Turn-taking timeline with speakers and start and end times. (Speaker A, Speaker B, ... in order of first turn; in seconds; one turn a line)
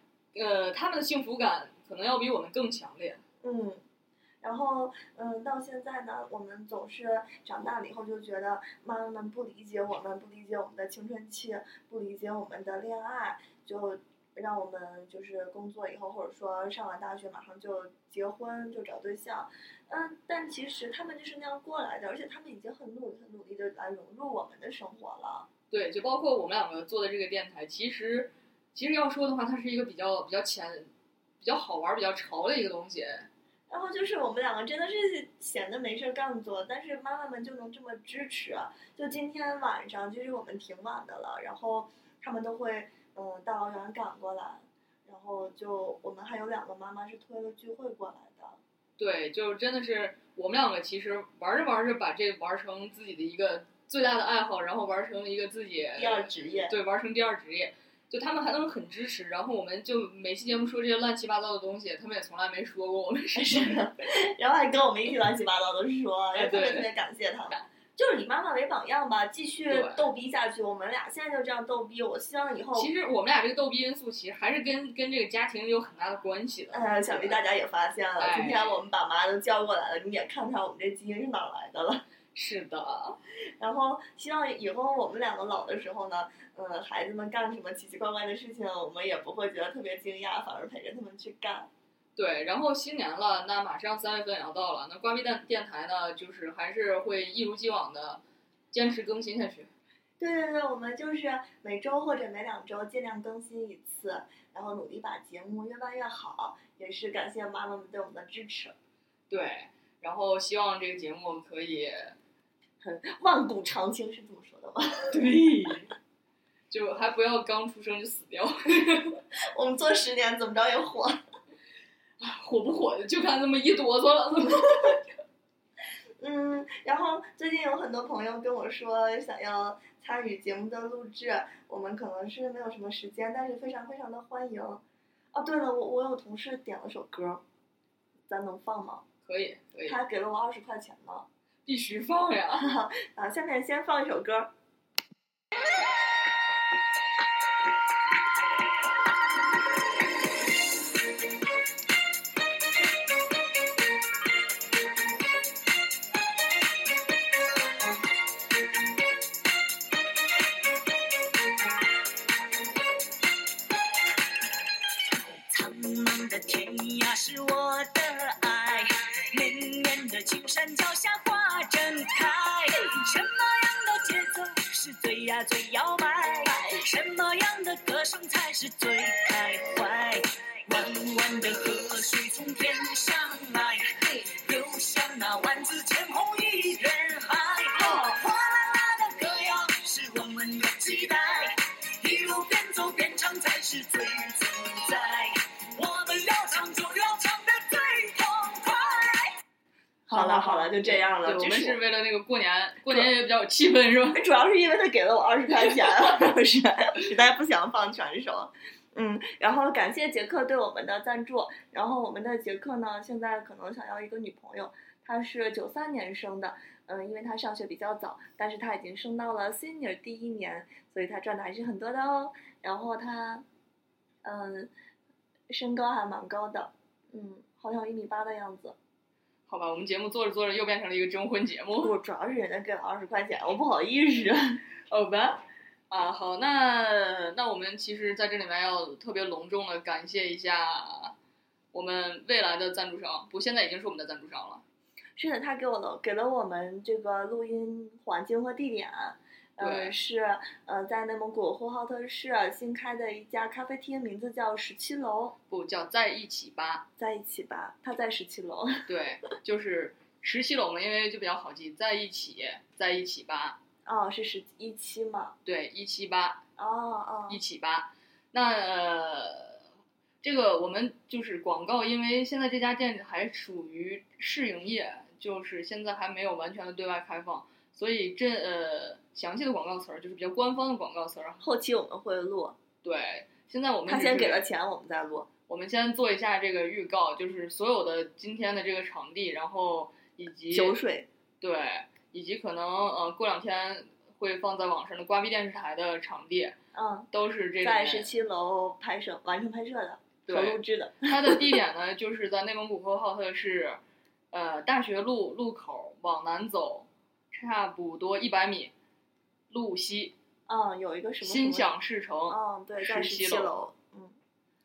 Speaker A: 0.3-3.2
Speaker B: 3.4-3.8
Speaker B: 4.4-25.5
Speaker A: 25.7-33.3
Speaker B: 33.7-48.6
Speaker A: 49.0-63.8
Speaker B: 55.9-56.7
Speaker B: 63.3-72.9
Speaker A: 66.3-66.9
Speaker A: 69.7-70.0
Speaker A: 72.7-77.4
Speaker B: 76.7-82.0
Speaker A: 78.2-78.8
Speaker A: 82.3-83.2
Speaker B: 83.6-91.7
Speaker A: 92.2-99.7
Speaker B: 100.2-108.7
Speaker A: 109.3-112.1
Speaker B: 112.8-115.2
Speaker A: 115.1-115.9
Speaker A: 116.7-119.2
Speaker B: 119.5-121.2
Speaker A: 122.2-125.0
Speaker B: 126.2-134.8
Speaker B: 135.3-137.4
Speaker B: 138.3-139.0
Speaker A: 139.2-140.0
Speaker B: 139.9-141.3
Speaker A: 141.7-142.7
Speaker B: 142.6-144.5
Speaker C: 165.5-199.3
Speaker B: 200.1-201.8
Speaker A: 200.1-204.2
Speaker B: 204.1-223.4
Speaker B: 224.2-224.7
Speaker B: 225.5-228.8
Speaker A: 229.5-231.9
Speaker B: 231.8-234.6
Speaker A: 234.9-241.1
Speaker A: 241.7-244.6
Speaker B: 245.2-255.4
Speaker A: 249.6-249.9
Speaker A: 255.5-256.9
Speaker B: 257.0-258.8
Speaker A: 258.9-263.6
Speaker B: 263.8-265.4
Speaker A: 265.4-266.4
Speaker B: 266.6-267.4
Speaker A: 267.3-269.6
Speaker A: 270.2-281.5
Speaker B: 281.4-282.6
Speaker A: 282.8-284.4
Speaker B: 283.9-285.3
Speaker A: 285.5-290.8
Speaker B: 290.5-291.1
Speaker A: 291.4-296.6
Speaker B: 296.7-297.1
Speaker A: 297.1-298.1
Speaker B: 297.6-301.4
Speaker A: 300.3-303.8
Speaker A: 304.3-308.7
Speaker A: 309.5-310.1
Speaker B: 310.5-311.7
Speaker A: 311.2-313.5
Speaker B: 312.3-314.1